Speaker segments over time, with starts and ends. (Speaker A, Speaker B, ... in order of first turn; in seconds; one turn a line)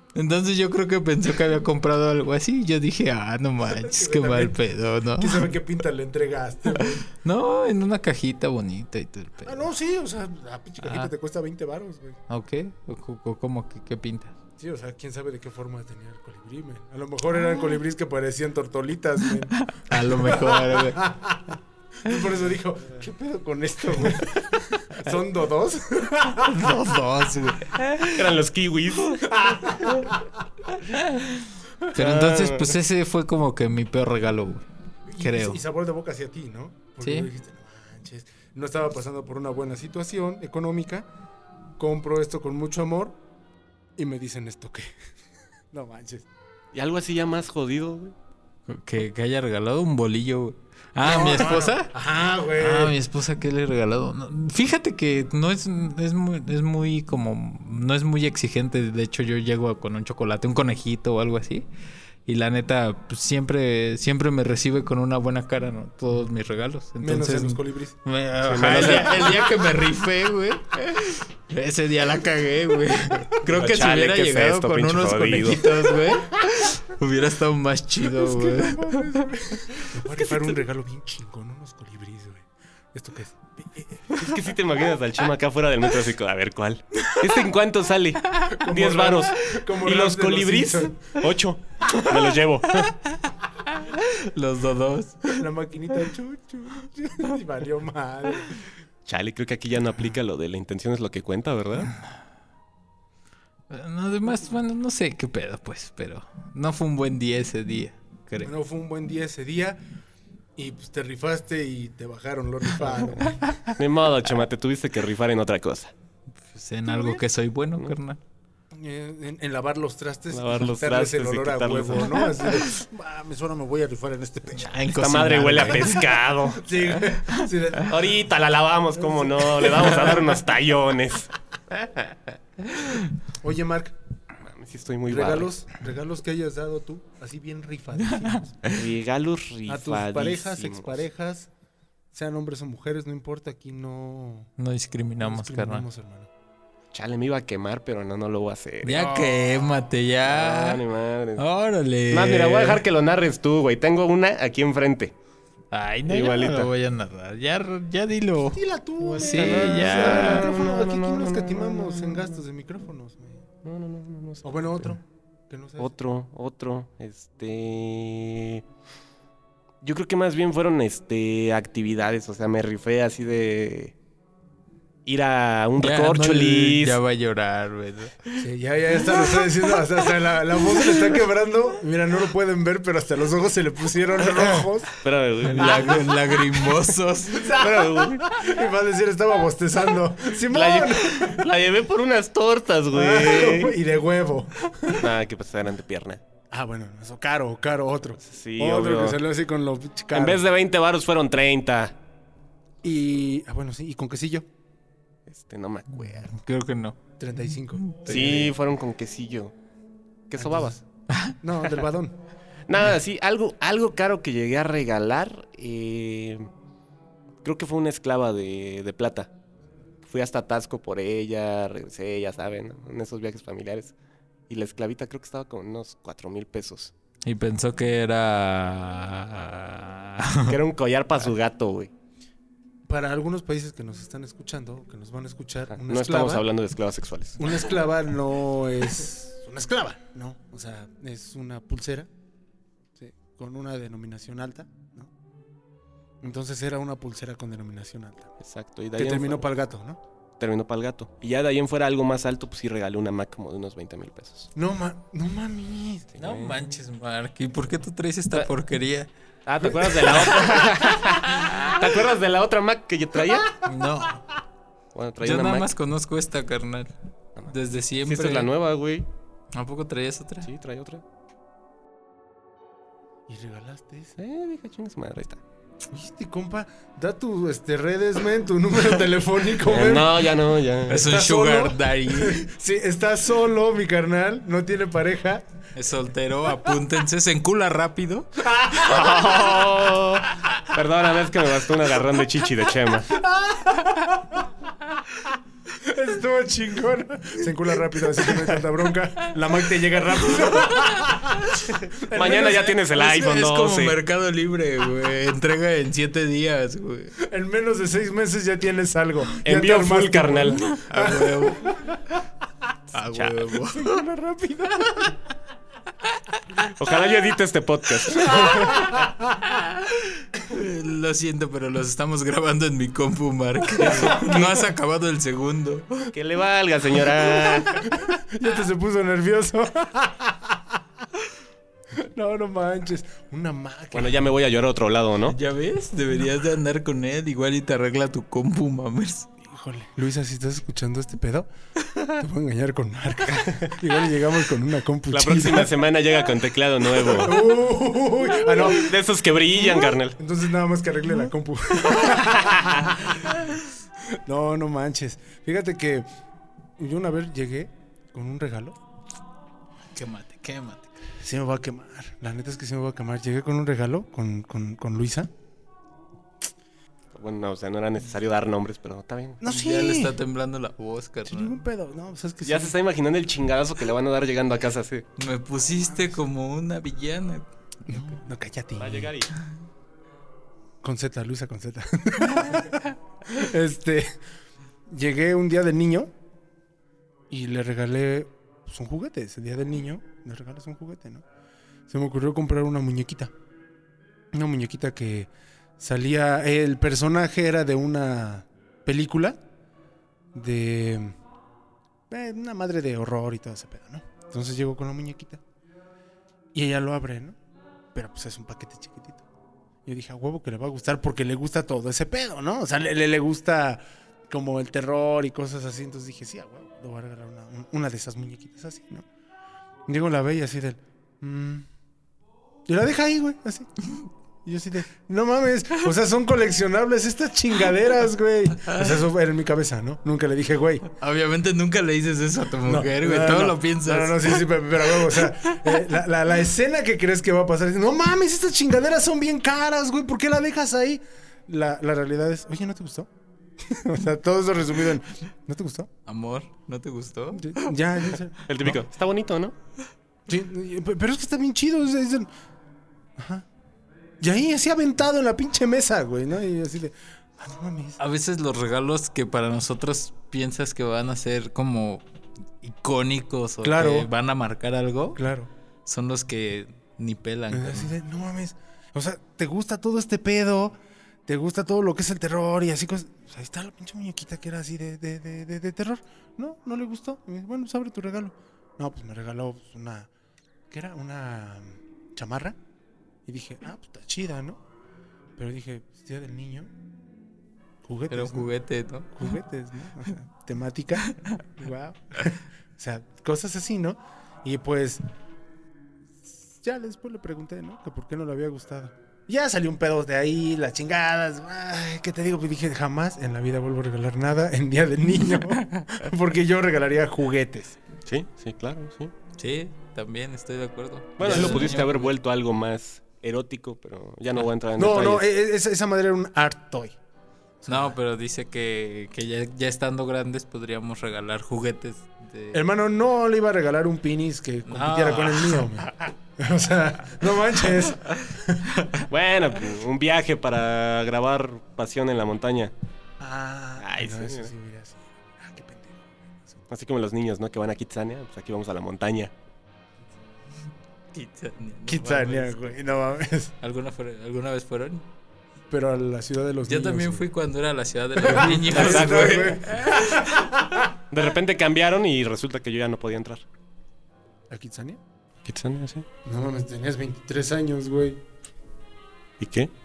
Speaker A: 0.1-5.5
Speaker B: 3.6-4.6
Speaker B: 5.2-7.1
Speaker A: 6.8-9.7
Speaker B: 9.4-12.2
Speaker A: 10.8-11.1
Speaker A: 12.3-14.4
Speaker B: 14.6-26.8
Speaker A: 19.6-21.1
Speaker A: 26.4-28.3
Speaker C: 28.1-29.3
Speaker B: 29.3-30.4
Speaker A: 31.0-34.7
Speaker C: 31.9-32.8
Speaker B: 35.1-41.1
Speaker A: 35.2-35.6
Speaker A: 37.0-37.3
Speaker B: 41.8-43.2
Speaker B: 44.0-45.0
Speaker B: 45.7-46.3
Speaker C: 46.7-48.1
Speaker A: 48.7-51.9
Speaker B: 51.0-53.0
Speaker A: 52.6-61.7
Speaker A: 62.3-80.5
Speaker B: 67.0-68.0
Speaker C: 68.4-69.5
Speaker C: 73.4-75.7
Speaker B: 78.0-84.2
Speaker C: 84.1-92.9
Speaker B: 88.5-91.1
Speaker A: 91.9-92.2
Speaker A: 93.7-95.5
Speaker B: 95.3-98.7
Speaker C: 99.1-101.9
Speaker A: 103.7-108.5
Speaker B: 108.4-109.8
Speaker B: 110.6-113.5
Speaker C: 113.7-115.9
Speaker A: 116.5-118.2
Speaker B: 116.9-117.2
Speaker B: 118.7-124.7
Speaker C: 120.3-122.4
Speaker A: 124.6-126.2
Speaker C: 124.8-126.7
Speaker B: 126.6-128.1
Speaker C: 127.9-131.3
Speaker B: 129.0-130.1
Speaker A: 132.8-133.0
Speaker B: 133.4-133.9
Speaker C: 134.4-135.5
Speaker B: 135.1-138.6
Speaker A: 138.2-138.7
Speaker C: 138.7-141.0
Speaker B: 139.7-141.5
Speaker B: 142.1-144.5
Speaker A: 144.6-145.9
Speaker B: 145.2-146.3
Speaker C: 146.9-149.4
Speaker A: 148.8-150.8
Speaker C: 150.2-151.4
Speaker A: 151.4-152.8
Speaker C: 152.1-155.2
Speaker A: 155.7-158.6
Speaker C: 156.1-156.7
Speaker B: 158.5-163.4
Speaker C: 159.0-162.3
Speaker A: 159.1-160.5
Speaker C: 163.6-164.9
Speaker B: 164.4-165.9
Speaker C: 165.8-168.6
Speaker C: 169.8-173.9
Speaker C: 175.1-177.0
Speaker A: 175.8-178.4
Speaker B: 178.4-184.9
Speaker A: 179.1-179.6
Speaker A: 180.7-181.1
Speaker C: 185.0-186.0
Speaker A: 185.4-187.6
Speaker B: 185.6-186.0
Speaker B: 187.3-191.5
Speaker C: 187.5-188.3
Speaker C: 190.5-193.8
Speaker B: 192.9-195.1
Speaker C: 194.9-196.2
Speaker B: 196.5-200.4
Speaker C: 198.2-199.2
Speaker C: 200.1-202.0
Speaker B: 202.8-204.5
Speaker C: 205.3-206.3
Speaker A: 206.0-207.0
Speaker B: 207.2-208.5
Speaker A: 207.8-208.5
Speaker C: 208.1-209.5
Speaker C: 210.3-210.8
Speaker B: 210.4-210.8
Speaker A: 211.1-211.3
Speaker B: 211.4-212.2
Speaker C: 212.7-216.5
Speaker C: 217.4-219.3
Speaker C: 220.0-223.9
Speaker C: 224.5-226.9
Speaker A: 227.2-230.6
Speaker C: 230.5-231.9
Speaker B: 232.9-236.5
Speaker C: 235.7-237.6
Speaker B: 237.4-242.1
Speaker B: 243.0-245.1
Speaker B: 246.2-248.3
Speaker C: 248.4-249.5
Speaker B: 249.0-250.0
Speaker C: 250.4-254.5
Speaker B: 254.6-256.1
Speaker C: 256.1-256.6
Speaker A: 256.2-259.1
Speaker C: 259.5-263.5
Speaker A: 260.0-260.7
Speaker A: 263.6-264.2
Speaker C: 264.9-265.7
Speaker A: 265.2-266.9
Speaker C: 267.4-269.1
Speaker A: 267.5-268.5
Speaker A: 269.5-270.5
Speaker C: 270.4-271.0
Speaker B: 273.3-274.1
Speaker C: 274.2-275.4
Speaker B: 275.9-280.4
Speaker C: 279.6-281.1
Speaker A: 280.9-282.5
Speaker B: 280.9-285.5
Speaker A: 285.8-288.3
Speaker B: 288.4-289.1
Speaker C: 288.8-293.1
Speaker B: 293.1-294.5
Speaker B: 295.8-302.8
Speaker A: 300.3-301.6
Speaker C: 302.1-304.0
Speaker A: 302.2-307.2
Speaker B: 307.2-312.0
Speaker C: 309.4-310.6
Speaker A: 310.6-311.8
Speaker A: 312.9-314.0
Speaker C: 313.1-313.4
Speaker B: 313.6-315.2
Speaker C: 316.6-318.9
Speaker B: 318.4-319.2
Speaker A: 318.6-318.9
Speaker A: 319.5-326.1
Speaker C: 323.8-324.4
Speaker C: 326.1-327.8
Speaker B: 327.9-330.6
Speaker B: 331.9-334.3
Speaker C: 333.9-335.4
Speaker A: 335.3-339.3
Speaker B: 339.4-341.5
Speaker B: 342.1-345.7
Speaker C: 343.4-343.7
Speaker C: 345.1-347.4
Speaker B: 347.1-349.0
Speaker C: 348.6-350.2
Speaker B: 350.2-353.4
Speaker C: 352.1-352.9
Speaker B: 354.1-356.1
Speaker B: 356.8-358.8
Speaker A: 359.9-360.9
Speaker B: 361.2-365.3
Speaker C: 367.1-369.4
Speaker B: 369.4-370.2
Speaker A: 369.4-371.6
Speaker B: 371.3-372.8
Speaker C: 372.4-375.1
Speaker A: 375.2-378.2
Speaker B: 377.9-379.1
Speaker C: 378.8-379.3
Speaker B: 380.8-384.2
Speaker B: 384.9-386.1
Speaker B: 387.3-391.2
Speaker B: 391.9-393.3
Speaker B: 394.3-399.4
Speaker B: 400.3-401.2
Speaker B: 402.1-405.4
Speaker B: 406.5-407.4
Speaker B: 407.9-409.2
Speaker B: 409.9-419.1
Speaker B: 419.9-421.7
Speaker B: 422.7-423.7
Speaker B: 424.4-430.9
Speaker A: 431.0-434.4
Speaker B: 432.6-445.9
Speaker A: 435.1-435.5
Speaker A: 446.1-447.8
Speaker B: 447.4-448.8
Speaker C: 448.4-449.6
Speaker B: 450.3-452.3
Speaker B: 453.2-453.5
Speaker B: 454.2-458.0
Speaker A: 458.0-462.0
Speaker A: 462.6-465.2
Speaker B: 463.6-464.1
Speaker B: 465.2-465.5
Speaker A: 465.9-467.9
Speaker B: 467.5-480.1
Speaker B: 480.7-482.6
Speaker B: 483.3-484.6
Speaker B: 485.4-486.7
Speaker B: 487.8-488.5
Speaker A: 488.1-489.2
Speaker B: 489.1-495.0
Speaker B: 496.5-507.8
Speaker A: 505.5-505.8
Speaker C: 508.1-509.1
Speaker A: 509.4-512.1
Speaker C: 511.2-515.2
Speaker B: 511.2-511.7
Speaker B: 514.8-517.0
Speaker B: 517.6-517.9
Speaker A: 517.7-522.6
Speaker B: 522.5-528.7
Speaker A: 524.7-525.8
Speaker C: 529.1-532.7
Speaker B: 533.2-536.6
Speaker C: 533.8-534.5
Speaker C: 536.7-539.3
Speaker A: 541.1-542.8
Speaker B: 541.9-543.5
Speaker A: 543.6-545.1
Speaker B: 545.7-547.2
Speaker A: 546.7-550.4
Speaker B: 548.2-550.9
Speaker C: 548.7-549.5
Speaker C: 551.1-553.5
Speaker B: 554.5-555.0
Speaker C: 555.5-556.1
Speaker B: 556.2-558.2
Speaker C: 559.4-559.7